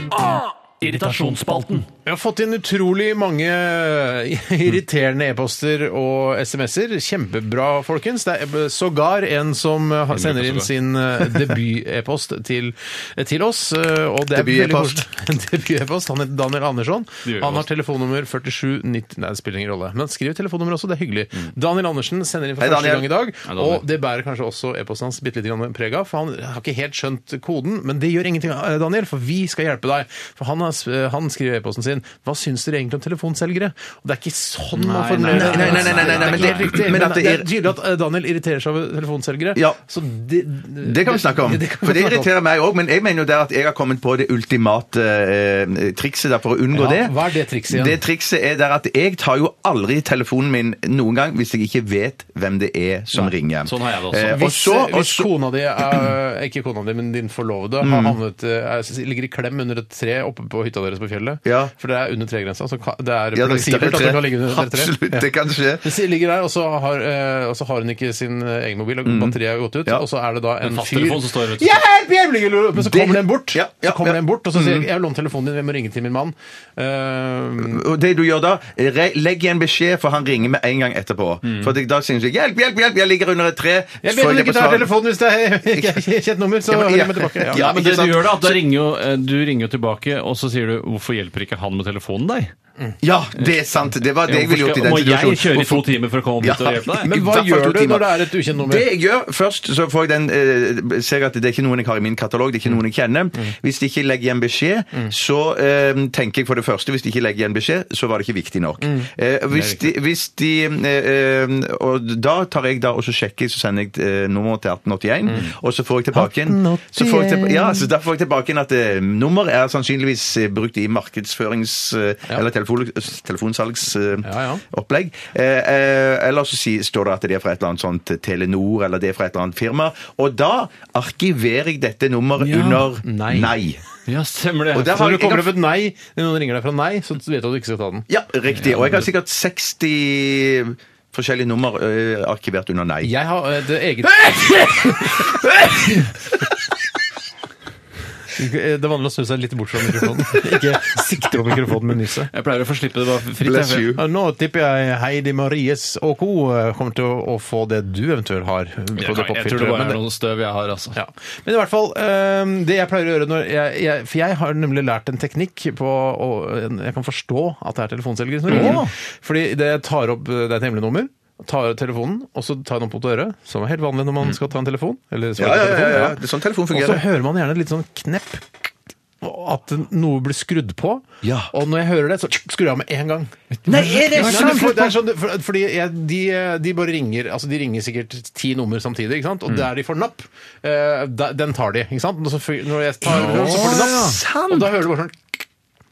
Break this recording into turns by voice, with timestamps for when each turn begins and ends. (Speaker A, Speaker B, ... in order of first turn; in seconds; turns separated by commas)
Speaker A: 0.3-42.3, Speaker B: 0.8-1.9, Speaker B: 10.1-10.7, Speaker C: 14.3-15.0, Speaker B: 17.2-17.7, Speaker C: 22.6-23.1, Speaker B: 23.5-23.8, Speaker B: 34.8-36.8, Speaker C: 35.3-37.5, Speaker C: 39.5-39.8, Speaker C: 40.8-55.3, Speaker A: 46.7-48.0, Speaker B: 53.6-54.4, Speaker A: 54.3-65.3, Speaker C: 57.8-58.2, Speaker C: 61.5-61.7, Speaker C: 63.3-65.9, Speaker A: 65.8-77.8, Speaker C: 69.0-70.0, Speaker B: 70.6-71.8, Speaker C: 72.8-74.9, Speaker C: 77.6-84.9, Speaker B: 81.5-81.7, Speaker A: 84.0-87.6, Speaker C: 85.7-86.0, Speaker C: 86.7-88.6, Speaker B: 87.5-92.5, Speaker C: 93.0-133.8, Speaker B: 94.3-97.1, Speaker A: 97.0-98.9, Speaker A: 108.8-109.1, Speaker B: 109.5-109.9, Speaker A: 116.1-117.9, Speaker A: 124.2-124.6, Speaker B: 132.4-132.9, Speaker A: 133.0-133.6, Speaker B: 134.1-135.1, Speaker C: 134.7-135.5, Speaker A: 134.8-138.1, Speaker C: 138.1-143.1, Speaker B: 138.6-139.0, Speaker A: 143.0-146.1, Speaker C: 145.2-145.7, Speaker A: 148.3-152.3, Speaker B: 152.3-153.9, Speaker C: 153.4-154.0, Speaker A: 154.0-160.0, Speaker B: 159.0-161.0, Speaker A: 160.9-176.2, Speaker C: 168.5-168.8, Speaker B: 168.5-168.9, Speaker C: 175.4-177.0, Speaker A: 176.7-195.3, Speaker C: 181.2-181.5, Speaker C: 183.7-185.0, Speaker B: 184.2-184.6, Speaker C: 193.0-194.7